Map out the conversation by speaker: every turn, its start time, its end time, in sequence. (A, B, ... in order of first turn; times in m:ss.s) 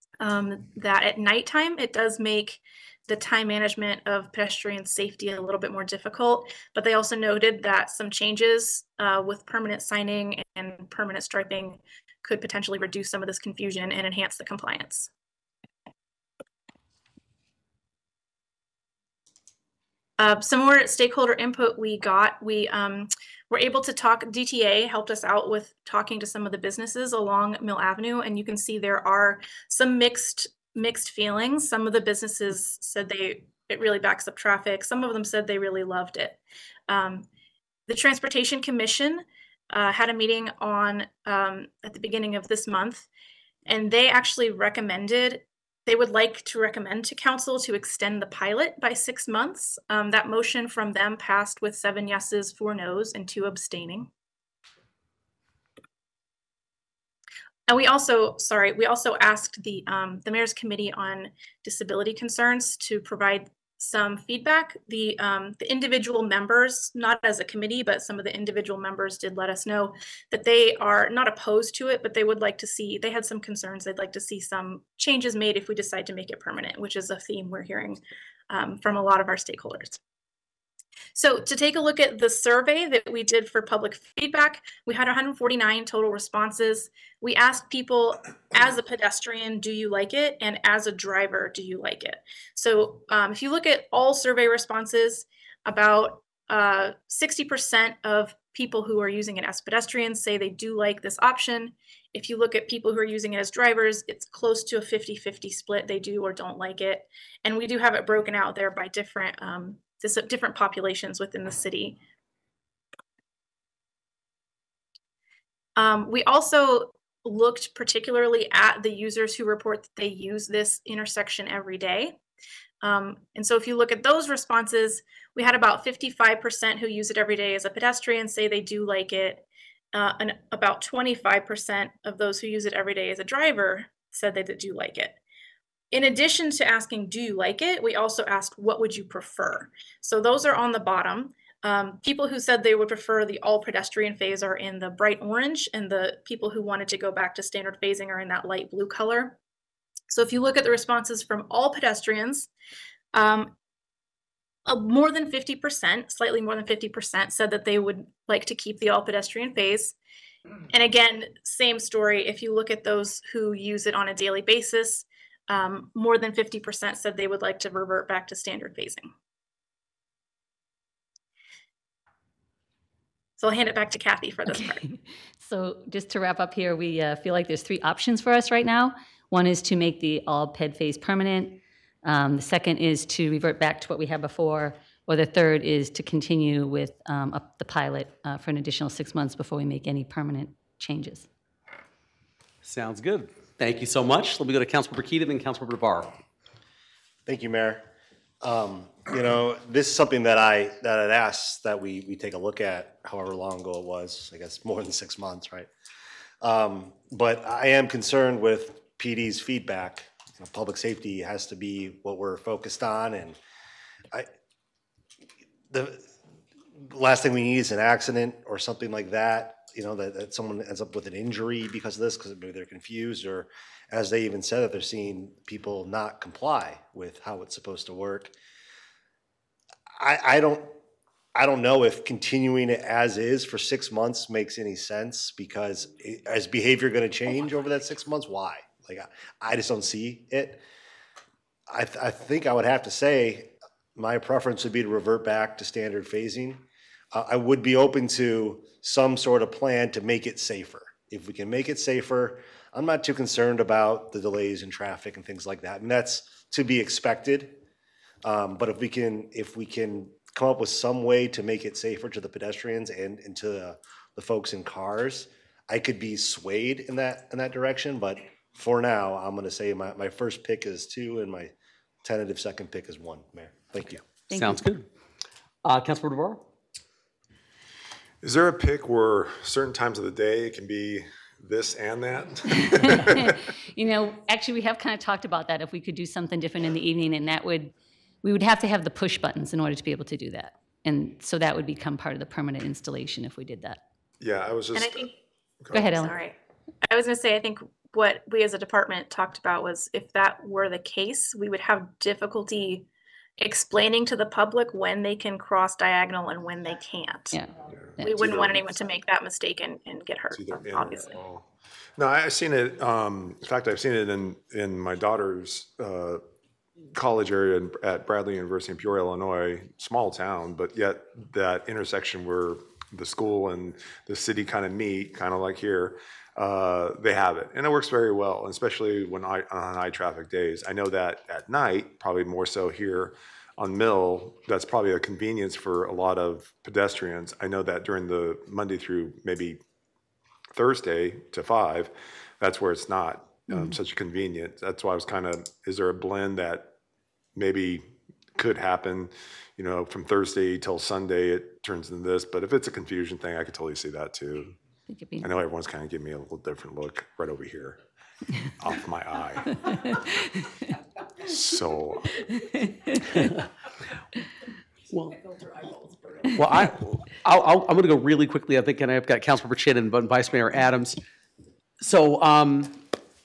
0:00.2-0:15.1 A
0:20.2-0:37.3 A
0:37.9-0:43.1 A
0:43.7-0:54.1 A
0:57.7-1:20.0 A
1:21.2-1:52.0 A
1:55.8-2:02.2 A
2:02.8-2:15.2 A
2:15.9-2:29.4 A
2:30.1-2:32.5 A
2:33.1-2:33.5 A
2:34.7-2:40.0 A
2:40.7-2:49.1 A
2:53.4-2:54.8 A
2:54.5-3:11.3 B
3:12.6-3:16.1 C
3:17.3-3:17.8 D
3:18.4-3:25.7 D
3:26.4-3:33.4 D
3:35.7-3:36.0 D
3:36.9-3:48.3 D
3:50.0-3:50.7 D
3:51.4-4:00.6 D
4:01.7-4:06.6 D
4:07.1-4:17.6 D
4:18.2-4:31.5 D
4:32.0-4:34.0 D
4:34.3-4:34.6 B
4:34.3-4:34.8 C
4:35.6-4:36.4 C
4:38.2-4:43.4 E
4:42.8-4:53.8 B
4:54.2-4:55.1 E
4:54.7-4:55.1 A
4:55.6-4:56.0 E
4:55.7-4:56.2 B
4:56.0-4:56.4 A
4:56.9-5:02.9 A
5:03.4-5:07.4 A
5:07.9-5:09.0 E
5:08.0-5:11.2 A
5:10.3-5:16.2 E
5:16.9-5:39.6 E
5:40.5-5:46.7 E
5:47.4-5:54.6 E
5:54.9-5:55.3 B
5:55.2-5:57.8 E
5:58.6-5:59.7 E
6:01.2-6:02.1 E
6:04.9-6:05.2 C
6:06.3-6:11.0 C
6:11.8-6:12.8 C